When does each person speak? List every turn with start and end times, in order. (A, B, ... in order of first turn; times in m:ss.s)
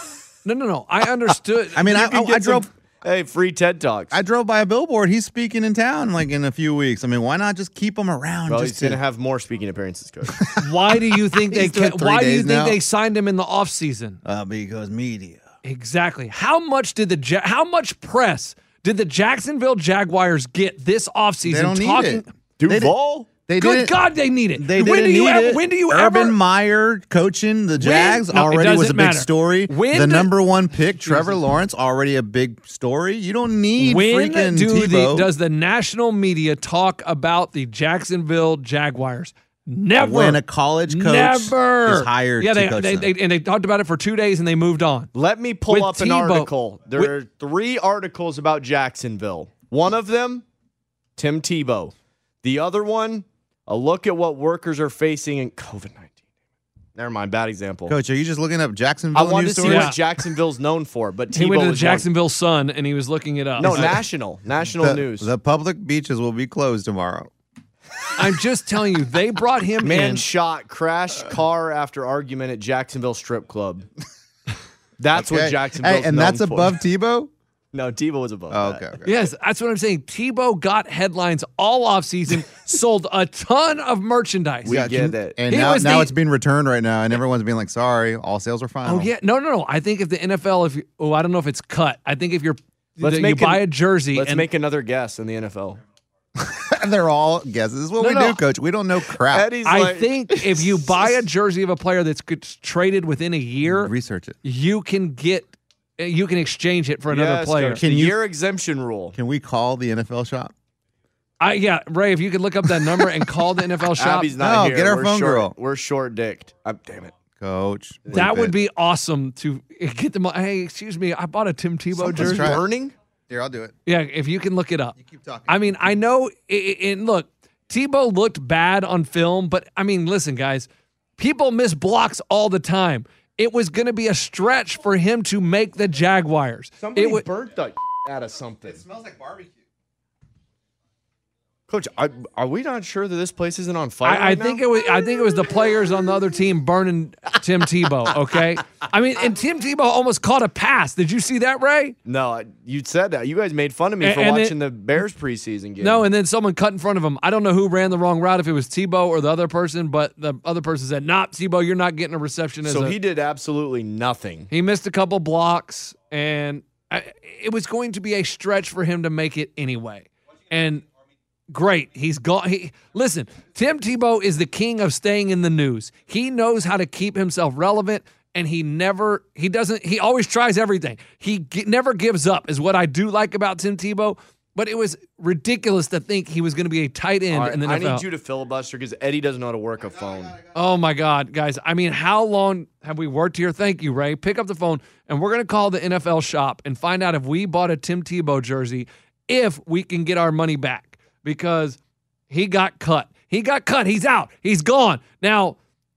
0:00.4-0:01.8 A
0:01.7-0:02.7 B
0:01.8-0:04.2 C
0:04.1-0:09.0 B
0:08.5-0:10.4 C
0:10.3-0:12.8 B
0:10.6-0:14.2 A
0:14.2-0:15.4 B
0:15.6-0:22.3 A
0:21.4-0:24.0 B
0:22.6-0:23.3 C
0:23.6-0:26.4 A
0:24.5-0:35.3 B
0:27.8-0:30.3 A
0:30.9-0:31.4 A
0:33.8-0:45.1 A
0:40.0-0:43.1 B
0:45.1-0:50.4 C
0:45.7-0:47.1 A
0:51.2-0:56.1 C
0:57.0-0:58.0 C
0:57.9-0:59.9 B
0:59.1-1:02.1 C
0:59.6-1:00.0 A
1:01.3-1:04.0 A
1:03.6-1:05.3 C
1:03.6-1:04.0 B
1:04.8-1:07.3 B
1:08.2-1:10.2 A
1:09.8-1:13.9 C
1:15.0-1:16.8 C
1:15.1-1:17.3 B
1:17.7-1:18.9 C
1:18.5-1:19.2 B
1:19.0-1:24.8 A
1:24.6-1:25.4 C
1:24.6-1:29.1 B
1:25.5-1:26.1 A
1:28.8-1:34.5 A
1:33.0-1:35.8 C
1:36.4-1:39.5 B
1:38.0-1:38.3 C
1:39.3-1:41.1 C
1:39.6-1:43.9 A
1:43.6-1:44.4 B
1:44.4-1:47.8 A
1:47.1-1:49.2 C
1:47.8-1:48.2 B
1:49.1-1:50.5 B
1:51.4-1:54.3 A
1:54.0-1:57.1 C
1:54.4-1:55.5 B
1:57.4-1:58.5 B
1:58.0-1:58.4 C
1:58.1-2:02.6 A
2:02.0-2:02.6 B
2:02.1-2:02.9 C
2:03.3-2:03.7 B
2:03.8-2:04.9 A
2:05.0-2:05.7 B
2:05.5-2:17.2 A
2:16.8-2:18.8 C
2:18.6-2:19.6 B
2:21.7-2:24.6 C
2:24.0-2:32.0 A
2:32.0-2:36.0 C
2:34.0-2:34.5 A
2:35.8-2:43.0 A
2:42.6-2:44.5 C
2:44.5-2:50.8 A
2:51.5-3:08.0 A
3:07.3-3:10.4 C
3:10.5-3:21.8 A
3:22.3-3:25.6 A